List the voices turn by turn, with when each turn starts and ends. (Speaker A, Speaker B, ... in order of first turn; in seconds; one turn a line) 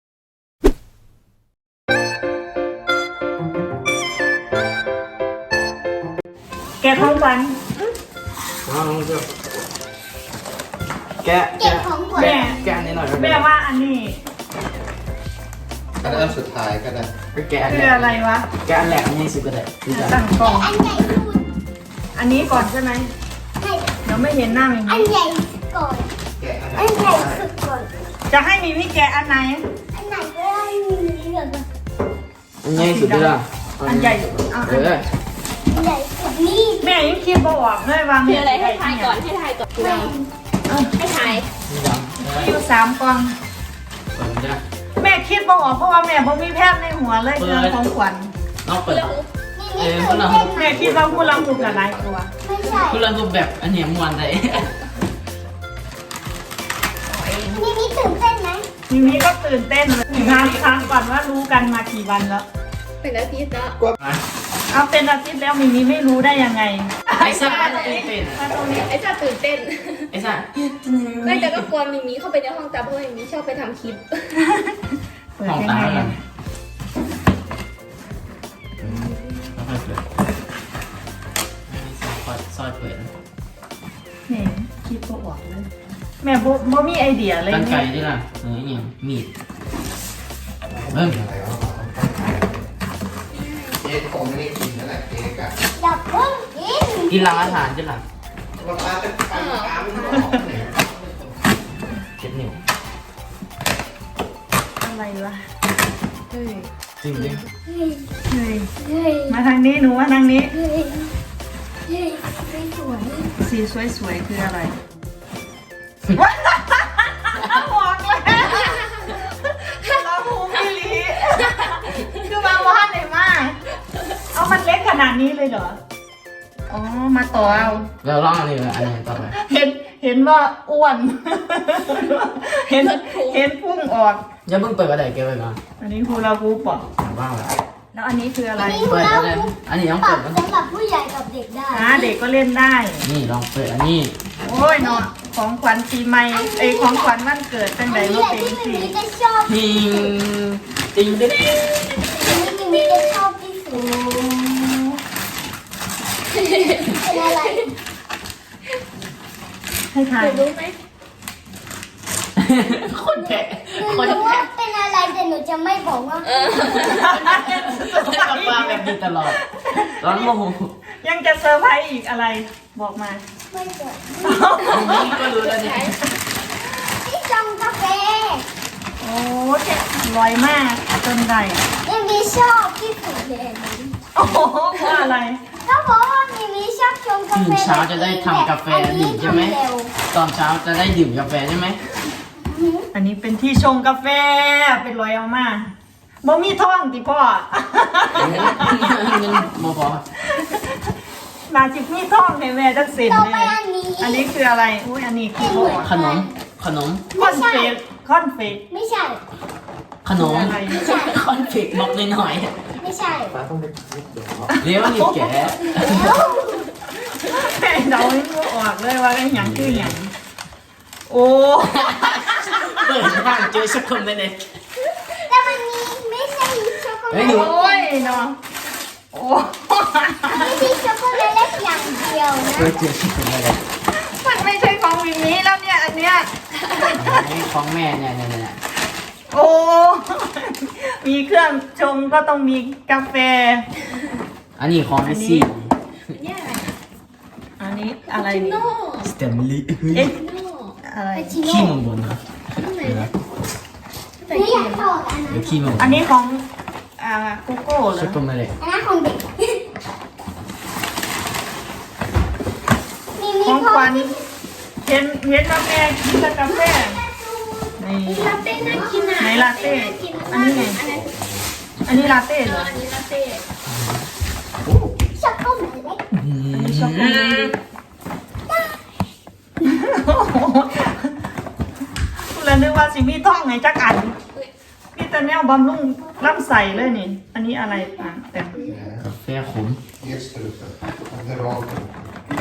Speaker A: 6.8-7.7
Speaker B: 8.7-9.2
Speaker B: 11.2-13.4
Speaker C: 11.5-12.9
Speaker A: 12.1-14.2
Speaker D: 16.0-17.1
Speaker A: 16.0-16.3
Speaker B: 17.3-20.2
Speaker A: 17.6-18.5
Speaker A: 19.9-20.7
Speaker C: 20.3-21.4
Speaker A: 22.1-23.1
Speaker C: 23.6-24.0
Speaker A: 24.0-25.2
Speaker C: 24.9-26.1
Speaker D: 26.4-27.4
Speaker C: 26.8-27.9
Speaker A: 28.3-29.6
Speaker C: 29.9-31.6
Speaker B: 32.6-35.1
Speaker A: 32.7-35.0
Speaker C: 35.7-37.0
Speaker A: 36.8-39.2
Speaker E: 38.2-40.1
Speaker C: 39.8-40.3
Speaker A: 40.7-41.4
Speaker E: 40.9-41.5
Speaker B: 41.7-42.5
Speaker A: 42.2-43.3
Speaker B: 44.1-44.6
Speaker A: 45.0-48.3
Speaker B: 47.4-47.8
Speaker B: 48.6-49.2
Speaker E: 48.8-49.3
Speaker C: 49.5-50.8
Speaker B: 49.7-50.6
Speaker A: 50.5-52.3
Speaker D: 50.6-52.1
Speaker C: 52.4-53.1
Speaker B: 52.8-54.7
Speaker E: 57.1-58.0
Speaker C: 57.5-58.7
Speaker A: 58.9-62.5
Speaker E: 63.0-63.8
Speaker A: 64.7-68.9
Speaker E: 67.2-68.0
Speaker B: 67.2-68.4
Speaker E: 68.7-70.1
Speaker B: 70.1-70.8
Speaker E: 71.2-74.4
Speaker A: 74.4-76.2
Speaker B: 75.4-76.2
Speaker B: 78.8-80.0
Speaker B: 81.7-83.1
Speaker A: 84.3-85.7
Speaker A: 86.2-87.9
Speaker B: 87.5-89.3
Speaker D: 90.7-92.7
Speaker B: 90.9-91.2
Speaker E: 93.3-93.8
Speaker D: 93.8-95.5
Speaker C: 95.8-97.7
Speaker B: 97.1-98.0
Speaker D: 98.6-101.3
Speaker E: 99.3-100.4
Speaker B: 102.2-102.6
Speaker A: 104.8-105.4
Speaker E: 106.3-106.7
Speaker B: 107.0-107.4
Speaker C: 107.1-108.1
Speaker A: 108.3-108.7
Speaker C: 108.8-109.4
Speaker A: 109.3-110.5
Speaker C: 110.4-111.1
Speaker C: 111.9-113.3
Speaker A: 113.4-114.8
Speaker A: 116.1-123.6
Speaker A: 124.3-125.8
Speaker A: 126.7-127.9
Speaker B: 128.0-129.4
Speaker A: 129.3-134.2
Speaker E: 132.8-133.4
Speaker B: 134.4-135.6
Speaker A: 135.8-136.8
Speaker B: 137.0-137.5
Speaker A: 137.9-138.9
Speaker C: 138.6-142.2
Speaker B: 138.8-140.4
Speaker A: 141.7-143.1
Speaker B: 143.0-144.1
Speaker A: 144.4-148.9
Speaker C: 144.5-145.0
Speaker C: 146.3-147.2
Speaker C: 147.8-150.2
Speaker B: 149.4-151.6
Speaker C: 152.1-153.9
Speaker E: 152.2-153.1
Speaker A: 153.7-155.0
Speaker E: 156.4-157.3
Speaker C: 156.8-157.7
Speaker A: 159.9-160.4
Speaker E: 160.2-160.8
Speaker B: 162.4-164.5
Speaker C: 163.7-166.7
Speaker E: 166.2-167.2
Speaker A: 166.8-170.3
Speaker B: 166.9-169.4
Speaker B: 170.0-170.7
Speaker A: 171.0-173.2
Speaker C: 173.5-174.9
Speaker A: 174.2-175.2
Speaker B: 174.7-176.0
Speaker E: 175.1-175.9
Speaker C: 176.8-178.4
Speaker A: 179.0-181.7
Speaker C: 181.8-184.0
Speaker A: 184.1-185.4
Speaker C: 185.6-189.9
Speaker B: 187.3-191.8
Speaker C: 192.4-192.9
Speaker A: 192.9-195.7
Speaker A: 196.2-199.4
Speaker B: 198.2-200.0
Speaker A: 200.3-200.8
Speaker A: 201.5-205.9
Speaker C: 203.0-204.3
Speaker C: 205.3-206.3
Speaker B: 205.6-207.1
Speaker C: 207.1-207.8
Speaker A: 207.1-208.6
Speaker C: 208.7-209.2
Speaker B: 210.0-212.7
Speaker A: 210.1-210.8
Speaker C: 210.7-211.2
Speaker C: 212.8-213.4
Speaker D: 213.3-214.5
Speaker A: 214.5-215.3
Speaker B: 214.6-216.2
Speaker C: 215.7-216.7
Speaker A: 215.9-216.5
Speaker A: 217.1-220.1
Speaker B: 219.3-219.9
Speaker A: 221.1-223.4
Speaker B: 221.7-224.6
Speaker C: 225.2-228.3
Speaker B: 227.1-227.6
Speaker A: 227.2-228.4
Speaker A: 229.1-230.6
Speaker C: 230.3-232.8
Speaker B: 232.4-233.6
Speaker A: 233.9-237.3
Speaker B: 237.0-238.6
Speaker A: 239.3-243.7
Speaker B: 244.6-245.7
Speaker A: 245.0-245.5
Speaker E: 246.1-246.8
Speaker A: 247.6-248.7
Speaker E: 248.1-249.1
Speaker B: 249.0-250.1
Speaker E: 250.0-250.7
Speaker A: 250.8-251.4
Speaker C: 251.1-251.8
Speaker B: 251.4-252.2
Speaker E: 252.5-253.1
Speaker B: 252.8-253.1
Speaker E: 254.2-254.9
Speaker C: 254.3-255.8
Speaker B: 255.3-256.0
Speaker A: 255.8-256.4
Speaker A: 257.0-258.2
Speaker B: 257.9-258.5
Speaker C: 258.6-259.6
Speaker C: 263.1-264.2
Speaker A: 263.4-264.1
Speaker A: 264.8-267.0
Speaker C: 266.2-270.1
Speaker A: 267.8-268.4
Speaker E: 268.1-271.1
Speaker A: 269.2-270.8
Speaker D: 270.3-271.4
Speaker A: 271.9-272.7
Speaker E: 271.9-273.4
Speaker B: 273.7-274.0
Speaker C: 275.1-276.0
Speaker B: 276.1-277.3
Speaker A: 276.5-277.5
Speaker E: 277.1-277.5
Speaker A: 279.6-281.2
Speaker A: 282.3-284.1
Speaker A: 284.9-288.6
Speaker D: 288.6-289.1
Speaker B: 289.0-289.8
Speaker D: 290.0-292.1